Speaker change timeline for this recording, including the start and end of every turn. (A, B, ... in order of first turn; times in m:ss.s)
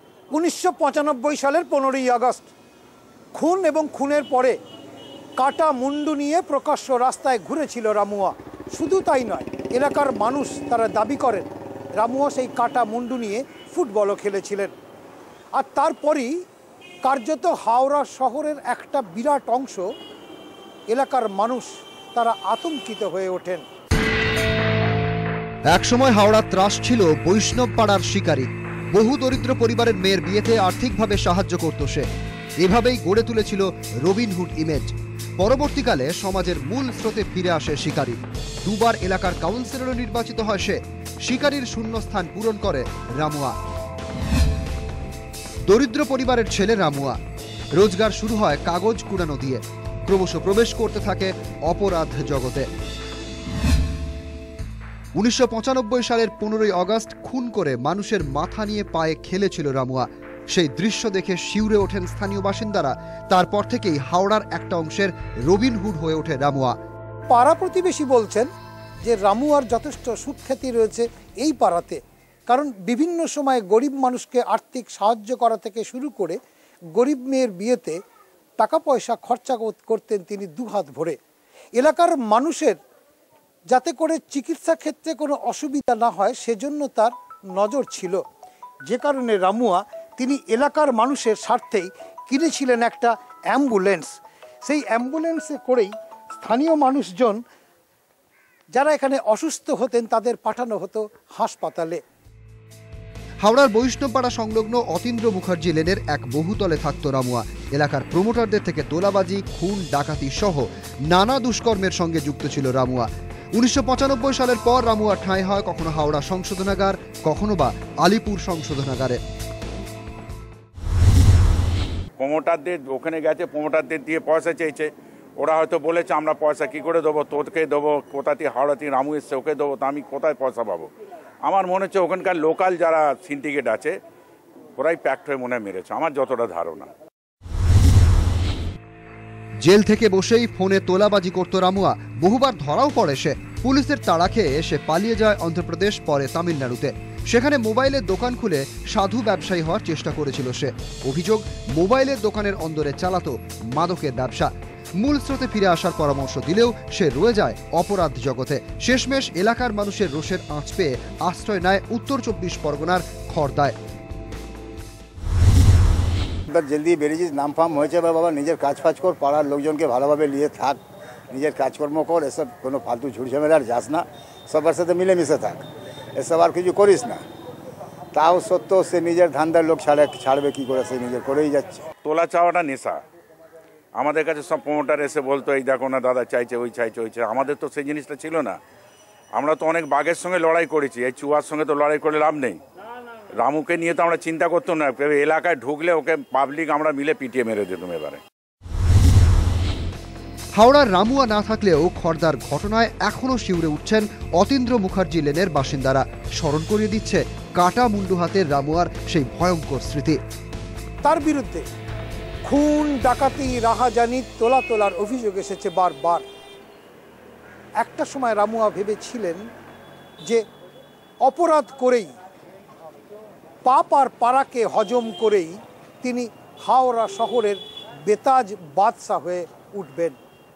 0:00.3-0:02.5 A
0:03.3-0:04.6 A
0:05.4-0:11.4 A
0:12.0-0:14.7 A
0:15.6-0:16.3 A
0:17.0-0:19.8 A
0:20.9-0:23.6 A
0:25.7-0:32.1 B
0:32.6-0:43.5 B
0:45.7-0:47.2 B
0:47.8-0:52.7 B
0:55.2-1:06.7 B
1:07.3-1:08.5 A
1:09.0-1:16.4 A
1:17.0-1:18.0 A
1:18.6-1:21.2 A
1:21.8-1:22.8 A
1:23.7-1:28.2 A
1:28.9-1:34.1 A
1:34.6-1:37.4 A
1:38.7-1:42.0 A
1:43.4-1:59.2 B
2:02.2-2:10.9 C
2:11.4-2:13.9 C
2:14.8-2:16.9 C
2:19.6-2:43.7 B
2:46.5-2:57.2 D
2:58.1-3:01.8 D
3:02.0-3:03.0 C
3:04.0-3:08.6 C
3:09.3-3:12.6 C
3:13.4-3:18.2 C
3:20.5-3:30.2 B
3:31.0-3:31.6 A
3:32.4-3:36.2 A
3:37.8-3:39.4 A
3:41.2-3:42.1 A
3:43.6-3:50.2 A